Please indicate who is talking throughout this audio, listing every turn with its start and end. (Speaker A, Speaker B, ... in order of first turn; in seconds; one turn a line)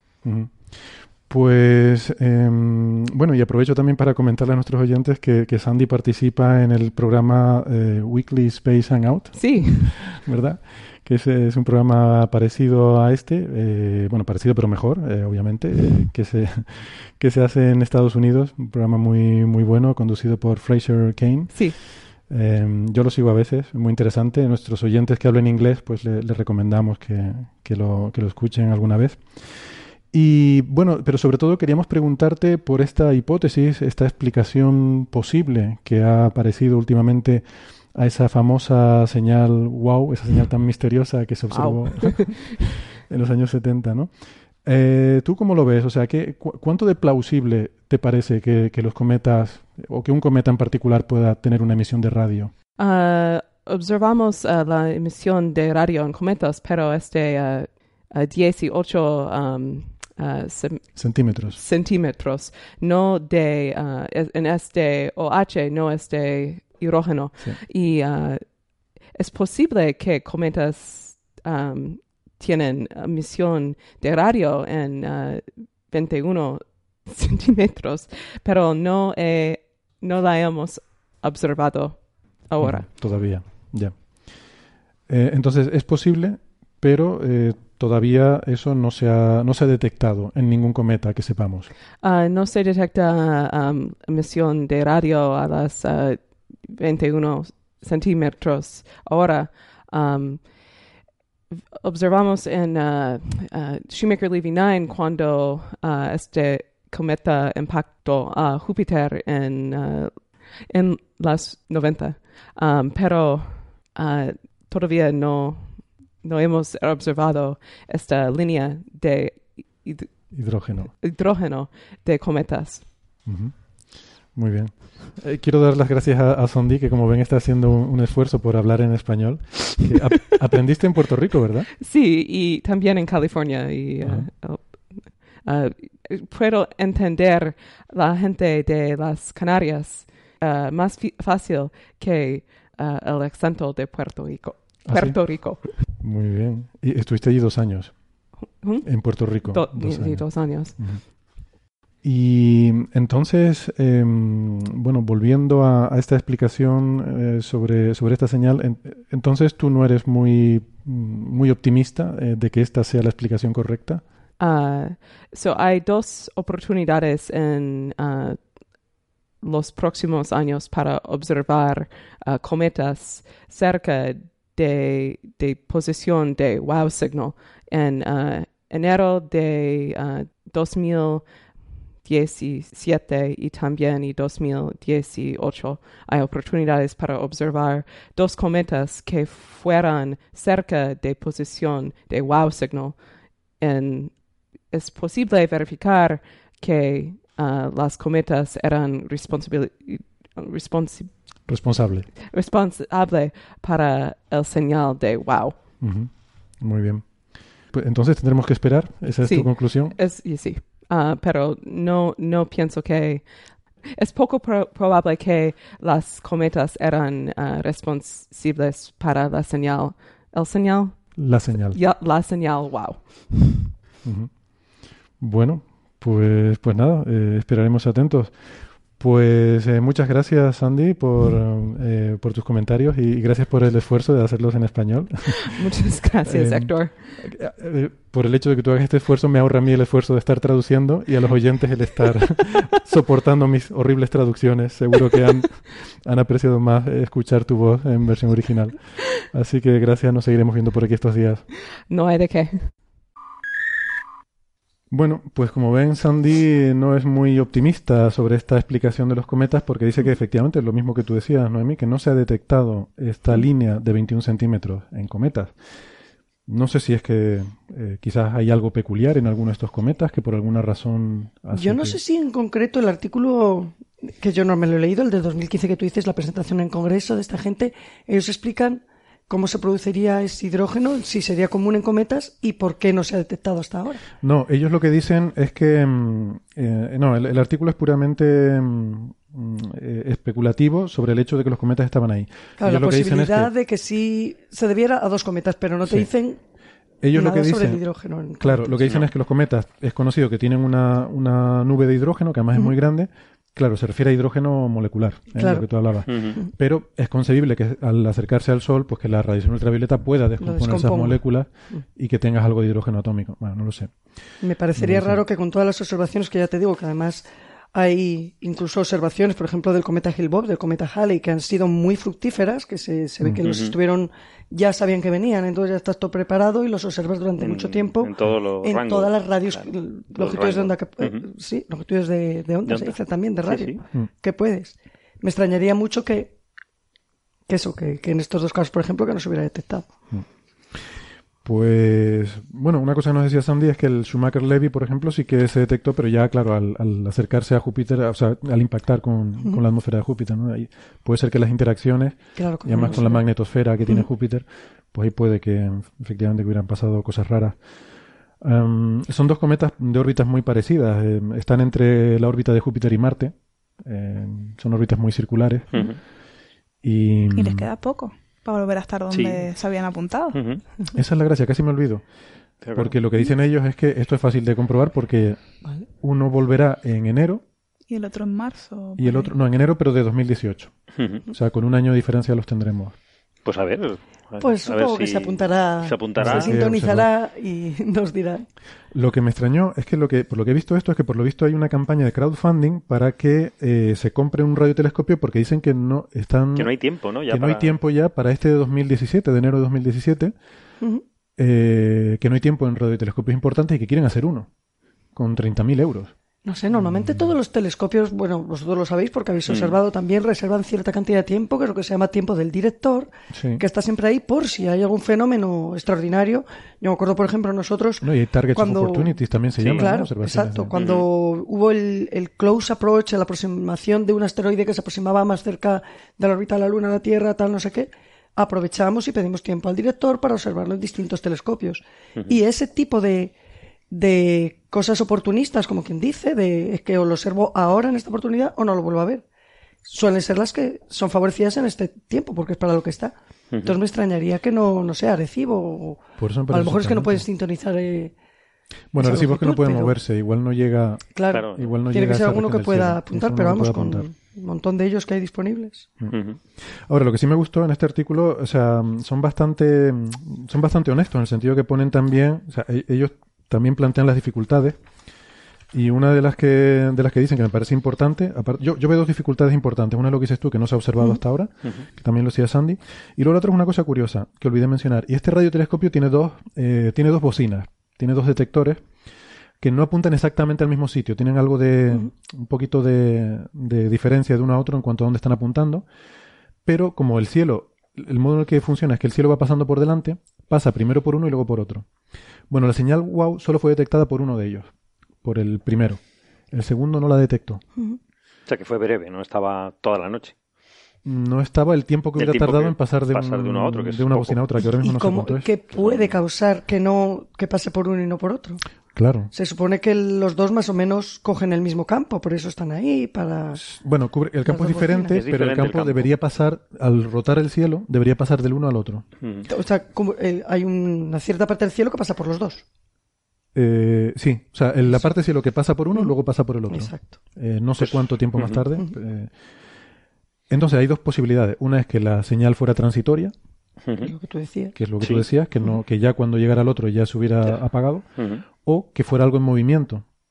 Speaker A: 0.2-52.5
Speaker B: 9.3-10.2
Speaker B: 21.5-21.8
Speaker B: 41.5-42.6
Speaker B: 52.8-82.9
Speaker A: 61.0-61.6
Speaker A: 82.6-91.7
Speaker B: 92.0-100.9
Speaker B: 101.5-123.0
Speaker A: 120.3-120.9
Speaker A: 123.2-131.7
Speaker B: 131.8-145.8
Speaker A: 134.0-134.3
Speaker A: 144.8-148.0
Speaker B: 148.6-151.0
Speaker A: 148.8-151.1
Speaker A: 152.0-164.0
Speaker B: 164.4-201.5
Speaker A: 201.5-202.1
Speaker B: 202.3-205.6
Speaker A: 205.8-207.1
Speaker A: 207.6-210.0
Speaker B: 209.2-223.7
Speaker A: 221.2-221.8
Speaker A: 224.0-224.3
Speaker A: 225.2-235.5
Speaker B: 235.5-237.2
Speaker A: 236.3-251.4
Speaker B: 251.9-252.7
Speaker A: 254.9-265.6
Speaker A: 266.5-272.0
Speaker C: 271.5-284.1
Speaker A: 284.2-293.5
Speaker C: 292.6-296.4
Speaker A: 295.8-296.1
Speaker A: 297.0-315.2
Speaker C: 297.1-298.9
Speaker C: 305.4-306.5
Speaker D: 306.1-306.4
Speaker C: 310.4-311.9
Speaker C: 314.4-336.4
Speaker A: 323.2-323.5
Speaker D: 323.4-323.8
Speaker D: 327.4-331.3
Speaker D: 332.7-333.8
Speaker C: 337.5-339.9
Speaker A: 340.1-340.9
Speaker A: 341.4-357.6
Speaker C: 352.4-353.3
Speaker A: 358.4-366.0
Speaker D: 365.7-366.0
Speaker A: 366.8-367.7
Speaker E: 367.4-370.4
Speaker D: 369.1-369.5
Speaker D: 370.3-370.6
Speaker A: 370.9-372.1
Speaker D: 372.6-373.0
Speaker A: 372.7-377.4
Speaker E: 377.9-379.3
Speaker A: 379.0-383.0
Speaker D: 381.0-381.2
Speaker D: 383.4-386.6
Speaker C: 384.4-388.5
Speaker A: 386.2-387.1
Speaker A: 388.9-400.4
Speaker D: 396.6-397.8
Speaker A: 401.4-404.5
Speaker A: 405.1-406.1
Speaker C: 406.4-433.3
Speaker A: 406.7-407.3
Speaker D: 409.5-409.8
Speaker A: 413.3-413.6
Speaker A: 418.0-420.7
Speaker D: 419.6-420.0
Speaker D: 420.7-421.1
Speaker C: 433.9-439.2
Speaker C: 439.9-448.1
Speaker D: 443.5-443.8
Speaker A: 446.2-447.2
Speaker A: 448.9-454.1
Speaker C: 449.0-450.0
Speaker C: 451.1-455.9
Speaker D: 451.3-451.8
Speaker A: 456.0-464.8
Speaker D: 456.1-456.4
Speaker A: 465.7-478.9
Speaker A: 479.6-485.9
Speaker A: 486.7-491.9
Speaker A: 492.5-494.7
Speaker A: 495.2-497.6
Speaker D: 498.5-500.4
Speaker A: 501.1-505.5
Speaker D: 502.2-504.4
Speaker C: 504.8-508.6
Speaker D: 505.7-506.2
Speaker A: 508.9-509.3
Speaker C: 509.3-513.6
Speaker A: 513.5-519.0
Speaker C: 514.5-515.2
Speaker D: 515.1-516.1
Speaker D: 519.2-519.5
Speaker C: 519.5-522.6
Speaker A: 523.5-529.3
Speaker C: 524.9-525.2
Speaker C: 526.7-527.2
Speaker D: 527.8-528.6
Speaker A: 530.5-533.3
Speaker D: 533.9-534.1
Speaker C: 534.0-534.8
Speaker A: 534.8-538.1
Speaker D: 535.0-535.3
Speaker D: 538.2-538.4
Speaker A: 538.6-540.0